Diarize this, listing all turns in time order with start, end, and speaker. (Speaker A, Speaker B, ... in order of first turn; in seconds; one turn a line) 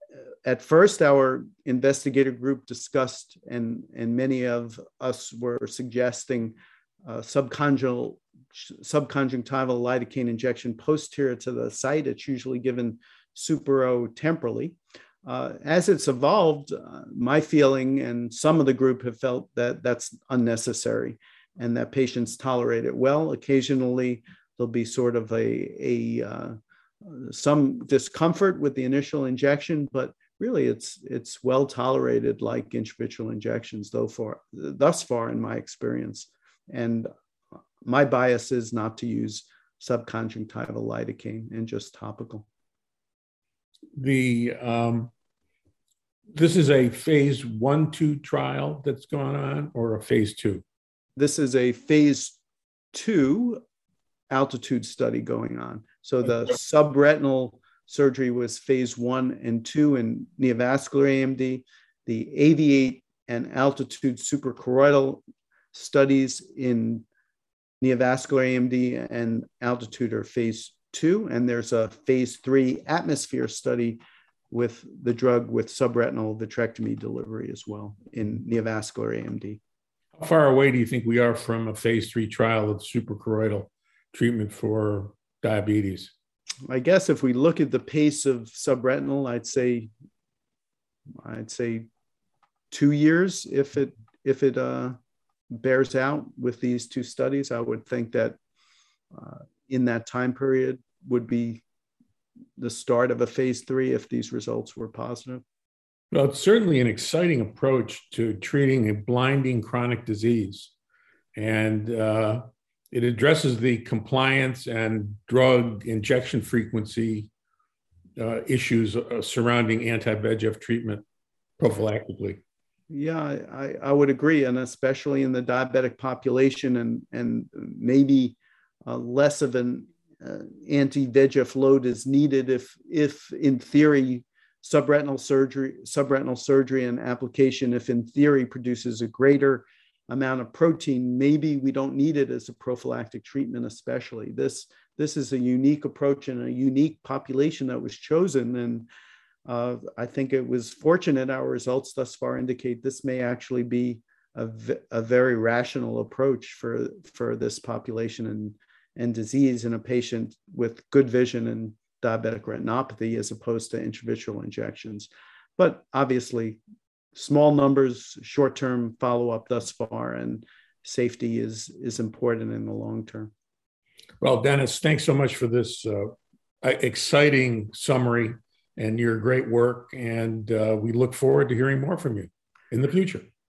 Speaker A: 0.5-37.1
Speaker A: 37.8-42.5
Speaker B: 44.0-45.1
Speaker B: 46.3-50.6
Speaker A: 51.2-52.4
Speaker A: 52.9-53.6
Speaker A: 54.3-67.1
Speaker A: 67.8-79.6
Speaker B: 80.2-86.1
Speaker A: 86.7-89.9
Speaker A: 91.2-91.9
Speaker A: 92.7-95.0
Speaker A: 95.6-98.4
Speaker A: 99.1-101.6
Speaker A: 102.6-105.4
Speaker B: 106.1-110.7
Speaker B: 111.3-117.3
Speaker B: 118.2-121.0
Speaker B: 121.6-122.4
Speaker A: 122.9-148.9
Speaker A: 149.5-166.6
Speaker A: 167.1-173.3
Speaker B: 174.2-183.3